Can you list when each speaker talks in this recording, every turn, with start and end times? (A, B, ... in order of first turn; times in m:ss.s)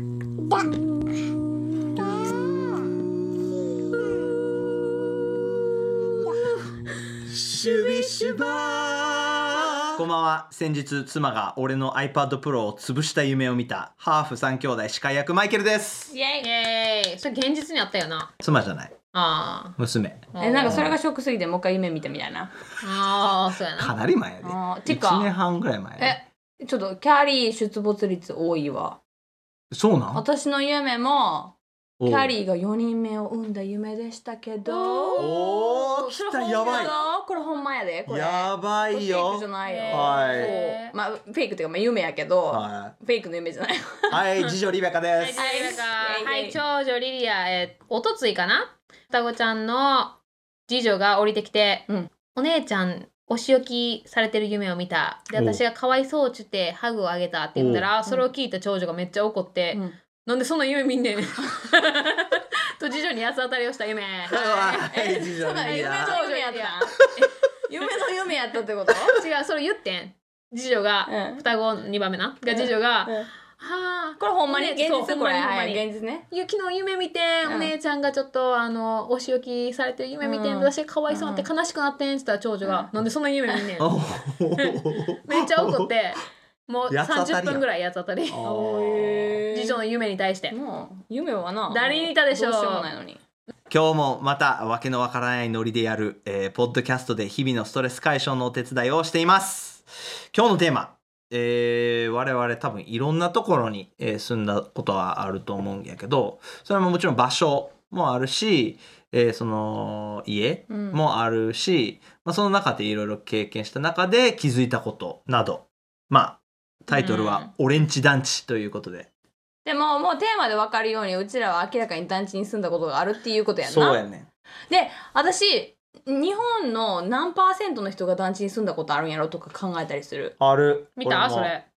0:07.2-0:16.1 A
0:08.9-0:09.3 B
0:16.1-0:16.5 B
0:16.4-0:18.3 C
0:18.4-0:19.0 A
0:19.1-0:19.8 C
0:19.8-0:21.0 A
0:20.3-0:20.9 C
0:20.4-0:22.5 B
0:22.8-0:24.0 C
0:23.8-0:26.2 A
0:24.4-0:25.3 B
0:26.0-0:29.0 B
0:29.7-0:30.2 A
0:30.1-0:44.2 B
0:32.0-0:32.3 A
0:34.6-0:35.4 C
0:35.2-0:36.9 A
0:36.6-0:37.0 C
0:38.1-0:40.5 A
0:39.6-0:40.9 C
0:42.5-0:43.0 A
0:44.1-0:45.5 A
0:45.2-1:05.0 C
0:45.4-0:46.6 B
0:55.3-0:55.6 A
0:57.6-0:57.9 A
1:04.3-1:06.2 A
1:04.9-1:09.2 B
1:05.6-1:07.0 C
1:09.1-1:23.9 C
1:11.0-1:11.4 B
1:12.4-1:13.3 B
1:14.2-1:16.2 B
1:17.4-1:17.7 B
1:20.2-1:21.5 B
1:22.6-1:22.9 B
1:23.8-1:25.9 A
1:25.2-1:28.4 C
1:26.9-1:27.6 A
1:28.3-1:29.4 A
1:28.4-1:29.8 B
1:29.5-1:30.5 C
1:30.5-1:33.2 B
1:31.7-1:32.9 C
1:33.7-1:59.1 A
1:50.7-1:51.0 B
1:56.9-1:57.3 C
1:57.0-1:57.4 B
1:59.6-2:04.0 B
2:03.6-2:04.3 A
2:04.7-2:10.3 B
2:10.4-2:11.5 A
2:11.0-2:11.6 C